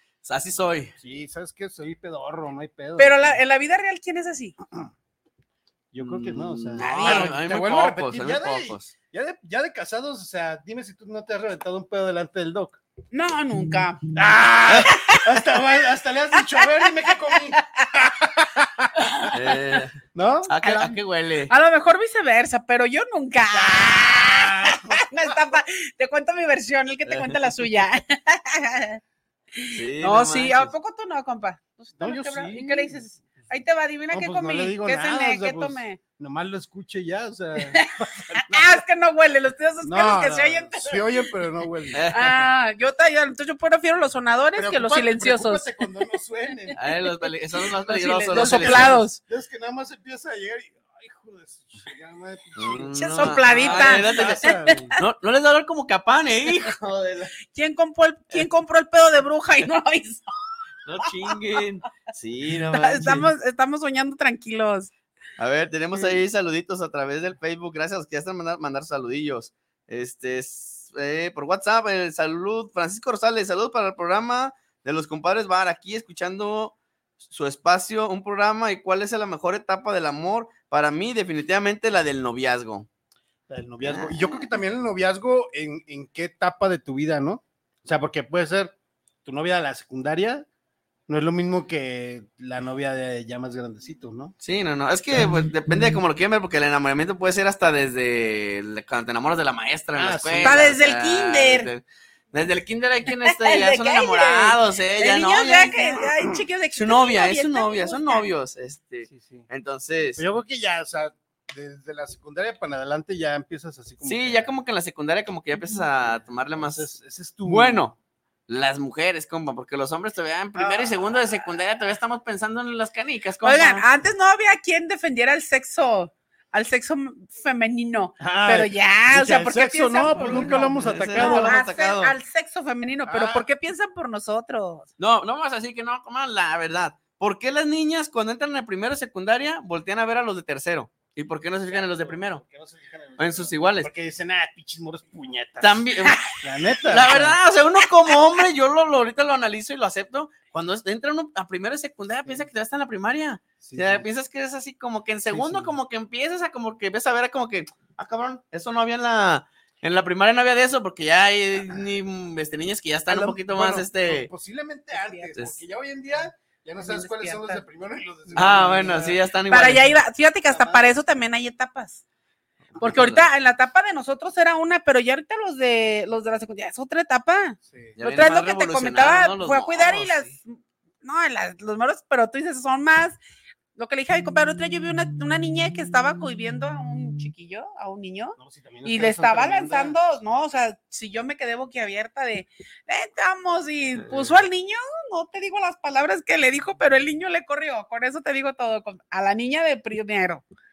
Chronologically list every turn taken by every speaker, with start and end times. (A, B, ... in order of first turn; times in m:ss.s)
0:00.2-0:00.9 A
0:01.0-0:03.4 B
0:03.0-0:04.6 C
0:05.9-0:12.8 B
0:06.0-0:08.9 A
0:06.8-0:07.3 C
0:13.1-0:14.0 C
0:14.1-0:19.3 B
0:14.8-0:15.4 C
0:16.4-0:18.1 C
0:19.0-0:19.4 C
0:19.3-0:20.0 A
0:20.1-0:20.5 B
0:20.5-0:21.5 A
0:20.6-0:21.0 C
0:21.5-0:29.0 C
0:23.5-0:25.0 B
0:27.1-0:27.4 A
0:29.6-0:36.0 C
0:29.7-0:30.7 A
0:32.0-0:33.5 B
0:34.1-0:38.8 B
0:37.7-0:41.3 C
0:39.8-0:42.1 B
0:41.9-0:42.5 A
0:42.1-0:45.8 C
0:44.6-0:46.8 B
0:46.8-0:49.0 A
0:47.8-0:49.2 C
0:48.3-0:55.0 B
0:52.6-0:57.4 A
0:52.9-0:55.0 C
0:57.4-1:00.3 C
1:00.9-1:03.3 A
1:01.0-1:01.4 C
1:02.7-1:04.9 C
1:05.4-1:22.9 A
1:23.5-1:30.5 B
1:31.1-1:34.3 B
1:34.4-1:46.1 A
1:40.0-1:40.6 B
1:40.4-1:41.7 C
1:43.2-1:48.2 C
1:46.7-1:50.2 A
1:49.1-1:49.5 B
1:50.2-1:54.5 B
1:54.0-1:56.9 A
1:56.0-1:57.8 B
1:57.4-1:58.0 A
1:58.5-2:03.8 A
2:00.6-2:01.2 B
2:03.4-2:14.9 C
2:08.2-2:11.6 B
2:10.1-2:12.2 A
2:13.1-2:13.5 B
2:15.0-2:22.4 A
2:21.7-2:27.4 B
2:23.2-2:23.9 A
2:25.6-2:26.2 A
2:26.9-2:44.3 A
2:33.6-2:34.1 B
2:35.3-2:35.8 B
2:43.1-2:49.2 B
2:44.9-2:45.3 C
2:46.8-2:47.6 C
2:48.4-2:48.6 C
2:48.4-2:49.9 A
2:49.5-2:52.0 C
2:50.5-2:51.0 B
2:52.7-2:53.3 A
2:52.8-3:03.2 C
2:57.7-2:58.0 B
2:58.0-3:00.3 A
3:03.8-3:20.4 C
3:08.4-3:10.0 B